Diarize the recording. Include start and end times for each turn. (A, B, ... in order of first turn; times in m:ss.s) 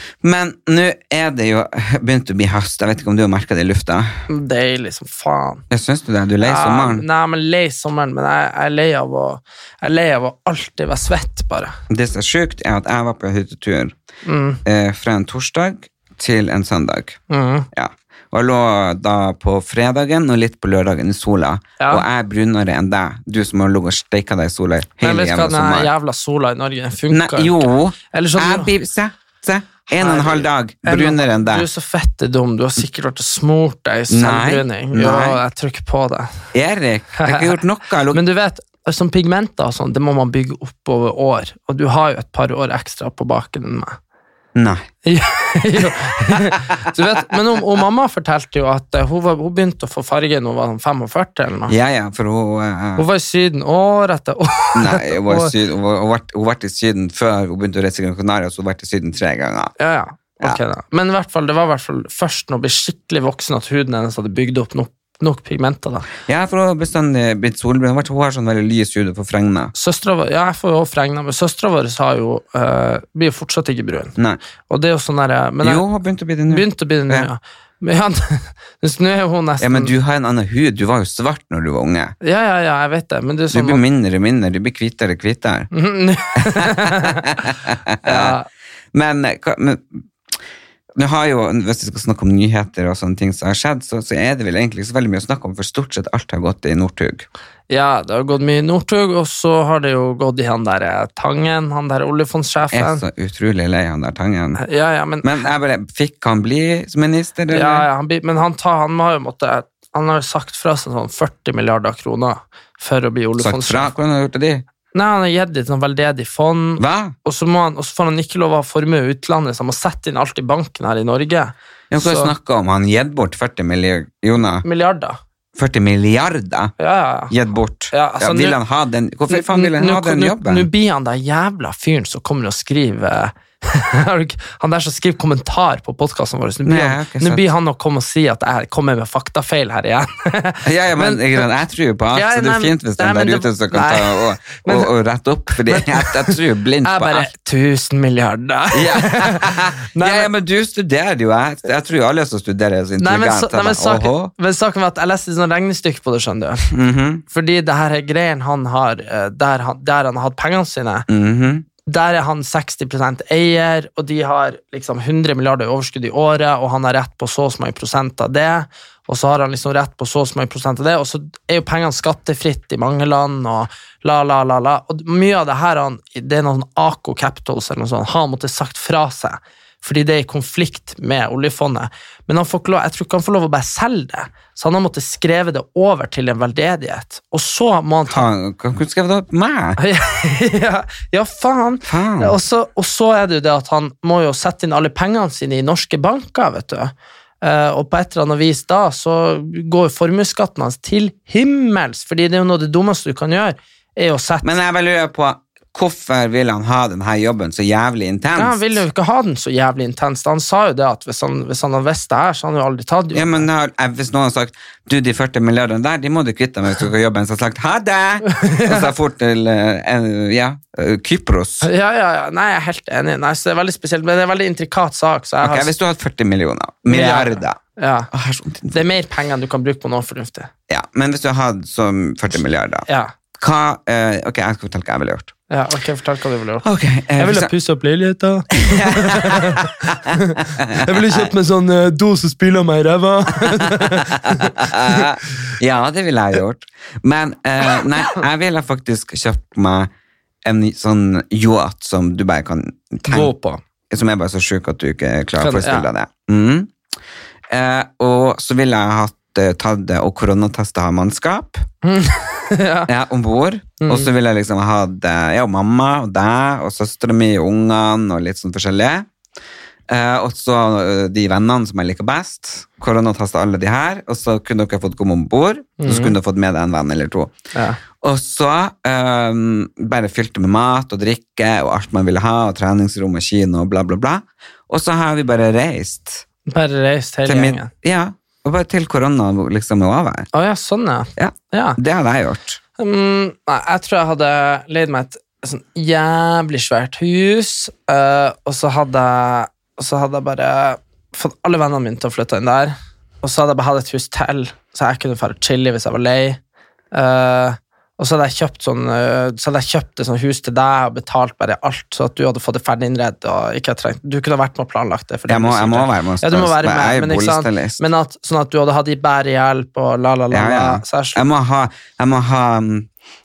0:00.2-0:04.1 A
0:04.3-0:05.6 B
0:05.7-0:07.0 A
0:06.4-0:11.8 B
0:11.9-0:13.9 A
0:14.2-0:14.6 B
0:14.6-0:17.2 A
0:17.3-0:17.7 B
0:17.7-0:25.9 A
0:21.8-0:22.0 B
0:25.0-0:28.7 B
0:27.1-0:31.6 A
0:30.0-0:36.3 B
0:34.1-0:35.4 A
0:36.5-0:38.2 A
0:37.2-0:37.5 B
0:38.1-0:44.0 B
0:44.5-0:44.9 A
0:45.0-0:51.7 B
0:51.7-0:53.0 A
0:53.0-0:55.5 B
0:54.7-0:59.7 A
0:59.8-1:06.1 B
1:06.2-1:09.7 A
1:09.7-1:14.1 B
1:14.7-1:15.8 B
1:15.6-1:17.3 A
1:16.5-1:19.9 B
1:19.6-1:22.1 A
1:22.2-1:23.8 B
1:23.5-1:25.7 A
1:25.7-1:27.4 B
1:26.4-1:28.4 A
1:28.0-1:28.5 B
1:28.9-1:30.0 A
1:31.0-1:37.2 A
1:37.7-1:43.0 B
1:42.7-1:44.6 A
1:44.6-1:45.4 B
1:45.2-1:47.9 A
1:47.5-1:53.9 B
1:53.4-1:54.6 A
1:54.9-2:02.3 B
1:56.8-1:57.1 A
2:01.9-2:04.6 A
2:04.6-2:05.2 B
2:05.6-2:06.7 A
2:06.8-2:07.3 B
2:07.3-2:10.7 A
2:07.9-2:08.6 B
2:09.3-2:21.4 B
2:16.6-2:17.4 A
2:20.6-2:27.3 A
2:22.1-2:24.9 B
2:25.6-2:30.3 B
2:28.7-2:34.3 A
2:33.0-2:36.6 B
2:36.7-2:37.2 A
2:37.3-2:41.1 B
2:41.1-2:41.6 A
2:41.8-3:08.3 B
3:08.1-3:09.8 A
3:09.8-3:24.5 B
3:11.8-3:12.4 A
3:24.4-3:28.8 A
3:28.4-3:33.5 B
3:33.1-3:41.7 A
3:38.3-3:38.9 B
3:41.6-3:45.7 B
3:45.4-3:47.6 A
3:46.9-3:48.1 B
3:48.1-3:48.9 A
3:48.7-3:50.5 B
3:50.7-3:55.3 A
3:55.5-4:05.0 B
3:56.6-3:57.5 A
3:58.6-4:01.3 A
4:03.3-4:09.9 A
4:10.4-4:13.3 A
4:13.0-4:13.6 B
4:13.9-4:16.7 A
4:15.4-4:15.9 B
4:17.5-4:21.6 A
4:21.8-4:22.9 B
4:22.9-4:29.1 A
4:23.8-4:24.1 B
4:29.9-4:37.3 A
4:35.8-4:36.1 B
4:37.5-4:37.8 B
4:38.0-4:46.2 A
4:46.5-4:47.7 B
4:47.2-4:50.3 A
4:50.3-4:51.8 B
4:51.2-4:52.6 A
4:52.8-5:06.4 B
5:06.9-5:21.2 B
5:15.3-5:17.8 A
5:20.3-5:22.9 A